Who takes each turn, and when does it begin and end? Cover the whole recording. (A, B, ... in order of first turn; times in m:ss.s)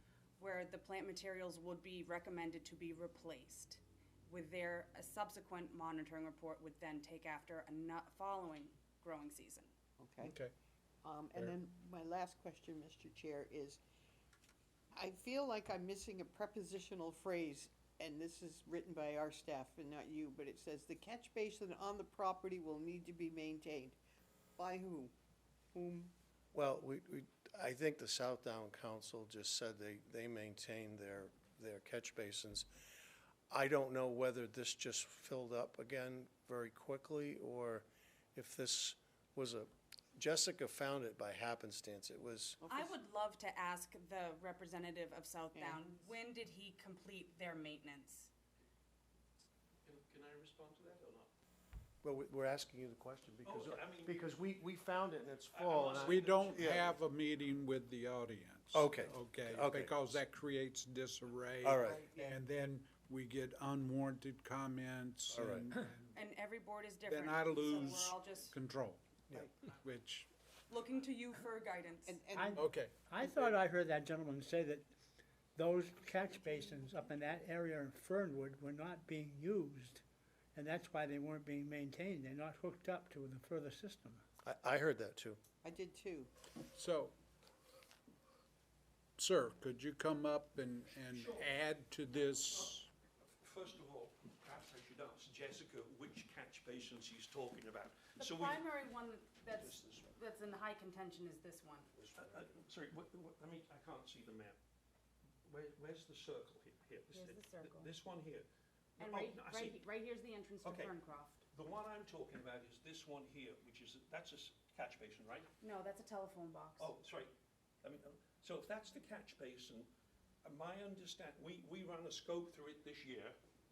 0:00.4-0:09.7 A
0:10.0-0:10.4 B
0:10.2-0:10.5 C
0:11.0-0:13.8 B
0:14.9-0:24.0 B
0:24.6-0:25.1 B
0:25.7-0:26.1 B
0:26.5-0:32.7 D
0:33.5-0:42.6 D
0:42.6-0:42.9 B
0:42.7-0:48.3 A
0:45.5-0:45.9 B
0:49.8-0:51.3 E
0:52.0-0:56.9 D
0:53.4-0:54.1 E
0:55.5-0:56.7 E
0:56.0-1:06.0 C
0:58.7-1:00.2 D
1:01.6-1:02.0 D
1:01.9-1:02.4 B
1:05.3-1:05.8 D
1:06.1-1:08.5 A
1:07.1-1:10.3 C
1:10.7-1:12.2 A
1:12.1-1:12.6 B
1:12.3-1:14.9 F
1:12.6-1:13.0 C
1:15.6-1:20.0 F
1:20.6-1:24.2 F
1:24.4-1:25.4 D
1:25.6-1:26.3 B
1:26.7-1:27.2 C
1:29.2-1:32.9 C
1:31.1-1:31.5 E
1:32.5-1:32.7 E
1:33.4-1:38.7 E
1:38.2-1:41.9 A
1:39.6-1:40.2 E
1:42.0-1:44.6 E
1:45.4-1:48.5 E
1:47.1-1:47.9 A
1:49.0-1:49.8 E
1:49.0-1:51.4 A
1:50.6-1:50.9 E
1:51.5-1:55.5 E
1:55.6-1:56.9 A
1:56.8-1:59.9 E
2:00.4-2:03.4 E